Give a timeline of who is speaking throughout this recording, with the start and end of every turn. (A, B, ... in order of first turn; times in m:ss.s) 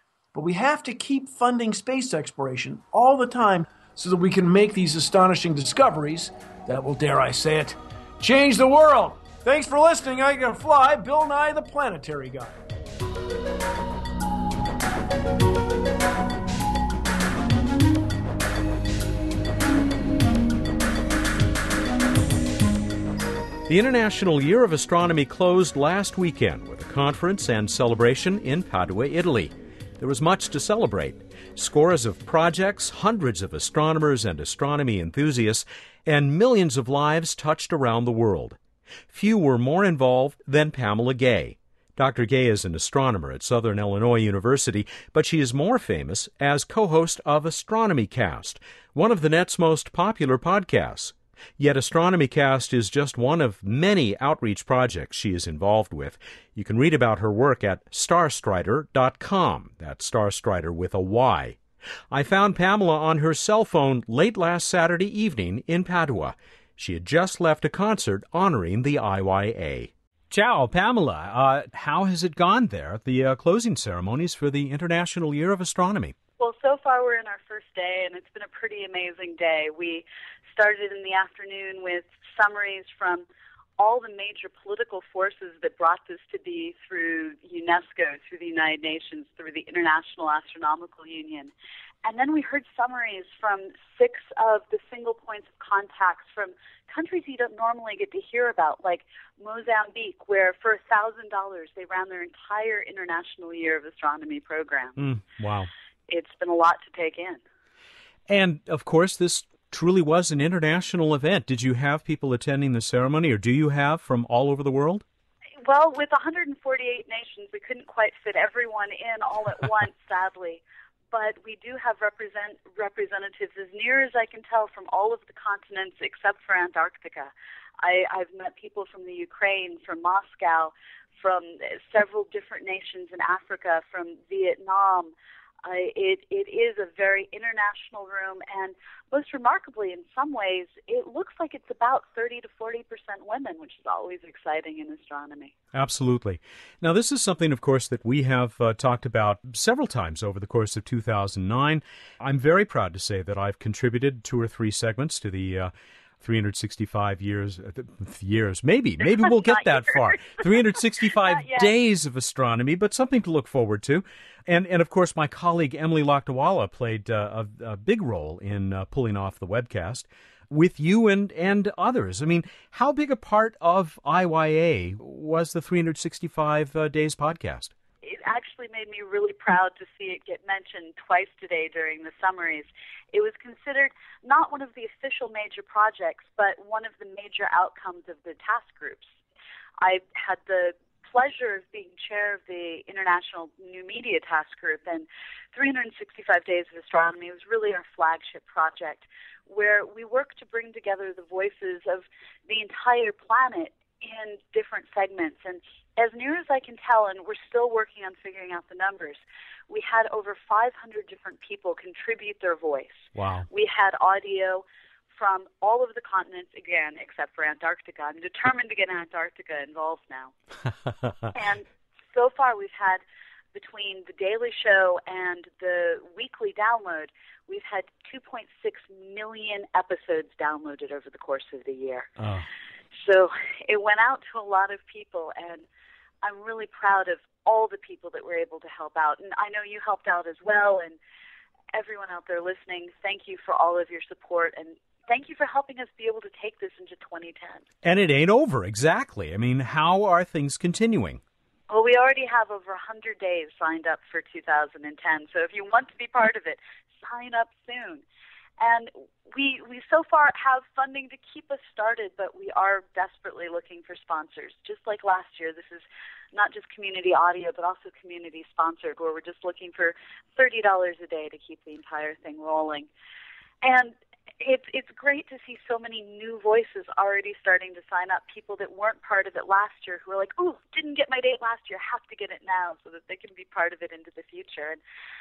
0:00.3-0:12.6 A
0:23.7-0:38.6 B
0:39.1-1:01.6 B
1:02.1-1:16.2 B
1:16.4-1:23.2 C
1:23.8-1:31.5 C
1:32.0-1:45.0 C
1:45.0-1:45.7 B
1:46.1-1:47.4 C
1:48.3-1:55.0 B
1:55.6-2:15.1 C
2:15.6-2:25.5 C
2:25.7-2:57.7 B
2:39.3-2:40.5 C
2:41.2-2:41.7 C
2:58.0-3:09.1 C
3:09.8-3:40.3 C
3:33.2-3:33.5 B
3:41.3-3:43.0 C
3:43.5-3:52.1 C
3:52.2-3:52.5 B
3:53.0-3:55.6 C
3:56.2-4:01.0 C
4:01.7-4:07.6 C
4:07.8-4:11.2 B
4:11.7-4:18.0 C
4:18.6-4:32.9 C
4:33.6-4:44.8 C